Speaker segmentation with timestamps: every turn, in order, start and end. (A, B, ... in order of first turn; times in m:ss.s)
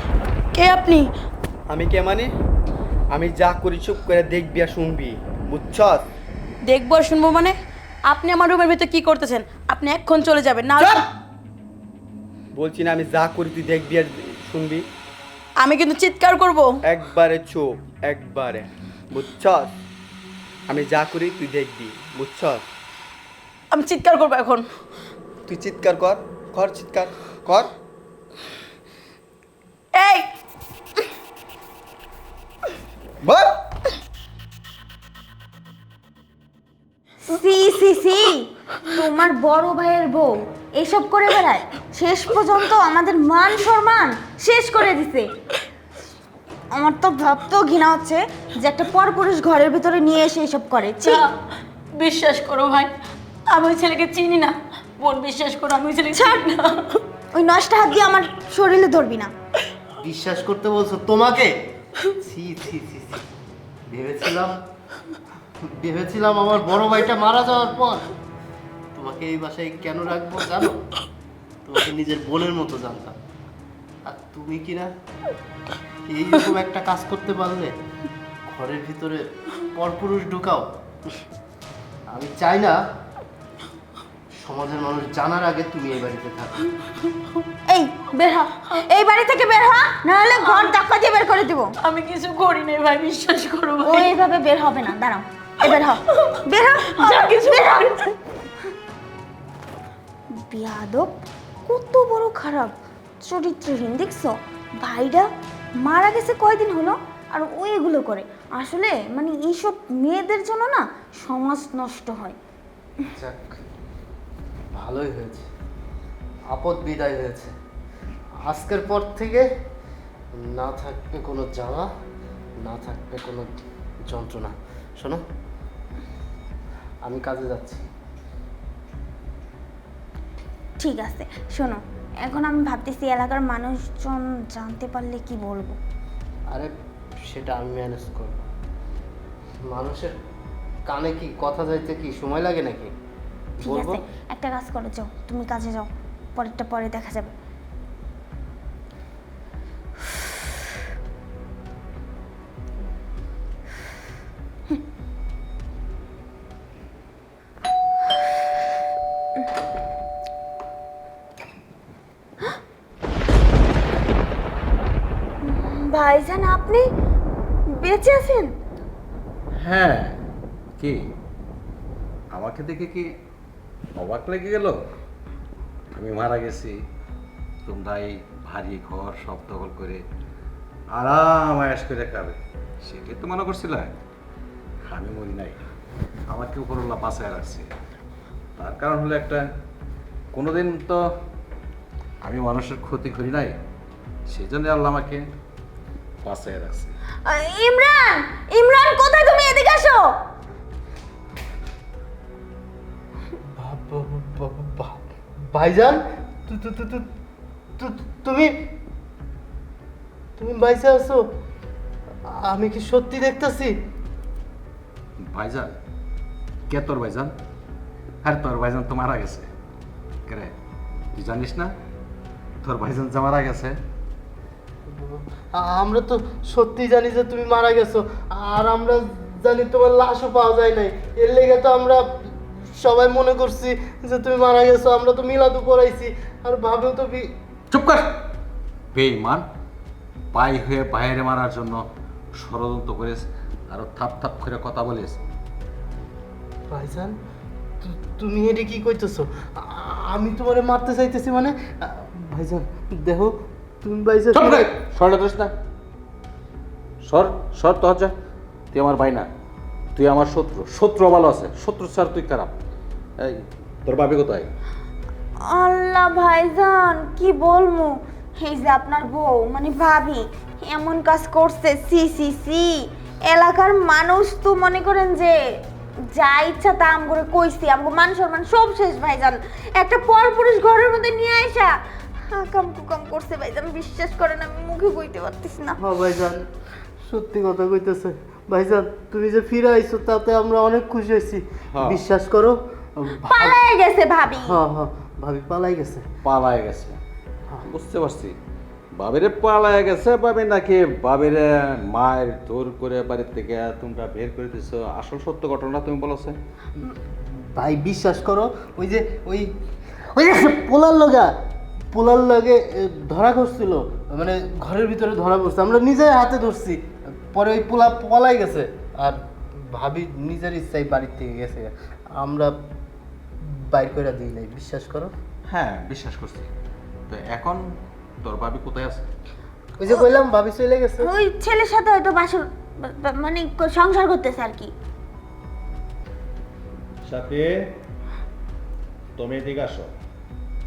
0:00.5-0:01.1 A
0:01.7-0:02.3 B
0:03.1-0:06.1 B
0:06.7-0:11.0 A
0:12.5-0:14.8 B
0:15.6-0:16.7 A
0:16.9-0:19.7 B
0:20.7-0:22.6 B
0:23.7-0:24.6 A
0:25.5-0:27.7 B
0:30.0-0:30.3 A
0:33.2-0:33.6 B
0:37.2-0:45.3 C
0:46.7-0:51.2 C
0:51.0-0:51.3 A
0:51.9-0:52.9 A
0:53.5-0:57.0 A
0:56.1-0:56.5 C
0:57.3-0:59.3 C
1:00.0-1:01.5 D
1:02.2-1:03.2 D
1:03.9-1:04.5 D
1:05.8-1:08.1 D
1:08.9-1:10.8 D
1:11.6-1:13.2 D
1:14.1-1:14.9 D
1:16.1-1:17.7 D
1:18.5-1:20.6 D
1:22.1-1:22.8 D
1:24.4-1:26.6 D
1:27.7-1:31.7 C
1:30.4-1:30.7 A
1:31.8-1:34.1 A
1:33.8-1:38.0 C
1:36.9-1:38.1 A
1:40.5-1:45.3 C
1:45.8-1:52.4 C
1:53.1-1:53.6 D
1:54.7-1:55.5 D
1:56.5-1:57.5 D
1:58.4-1:59.5 D
2:00.4-2:01.9 D
2:02.6-2:05.2 D
2:07.0-2:07.8 D
2:10.8-2:15.8 C
2:17.3-2:18.4 D
2:19.7-2:20.1 D
2:20.9-2:22.9 D
2:23.6-2:27.3 C
2:23.6-2:24.0 D
2:45.4-2:46.8 C
2:47.8-2:48.5 C
2:49.6-2:50.2 E
2:52.3-2:53.1 E
2:54.0-2:54.8 E
2:55.9-2:56.8 E
2:57.6-3:00.0 E
3:01.0-3:04.0 E
3:04.9-3:05.6 E
3:06.3-3:07.7 E
3:08.6-3:09.4 E
3:10.3-3:11.0 E
3:12.2-3:13.6 E
3:14.3-3:15.2 E
3:16.2-3:16.9 E
3:17.2-3:20.1 C
3:23.6-3:27.0 D
3:27.8-3:28.5 D
3:30.4-3:31.2 D
3:32.3-3:33.7 D
3:35.2-3:35.8 E
3:36.7-3:37.3 E
3:38.2-3:39.5 E
3:40.3-3:40.5 E
3:41.1-3:41.7 E
3:42.6-3:43.8 E
3:44.9-3:57.3 D
3:57.7-3:58.1 E
3:58.9-3:59.4 E
4:00.3-4:01.8 E
4:02.4-4:05.2 E
4:06.7-4:07.1 D
4:07.8-4:14.7 D
4:14.3-4:15.5 E
4:17.0-4:18.1 E
4:18.7-4:19.3 E
4:19.9-4:22.5 E
4:23.2-4:24.5 E
4:25.4-4:35.4 C
4:36.1-4:41.8 C
4:42.3-4:45.8 C
4:45.8-4:46.4 D
4:47.0-4:53.6 D
4:51.7-4:52.0 E
4:53.2-4:54.6 C
4:54.4-4:56.0 D
4:56.2-4:57.0 E
4:57.6-4:58.3 E
4:59.0-5:06.4 E
5:06.8-5:09.5 D
5:10.1-5:11.3 D
5:11.9-5:16.8 D
5:17.3-5:19.2 D
5:19.7-5:22.5 D
5:23.5-5:25.1 D
5:25.5-5:26.5 E
5:27.1-5:27.6 E
5:28.2-5:29.0 E
5:29.8-5:31.1 D
5:31.0-5:34.7 C
5:37.0-5:37.5 E
5:39.2-5:39.9 E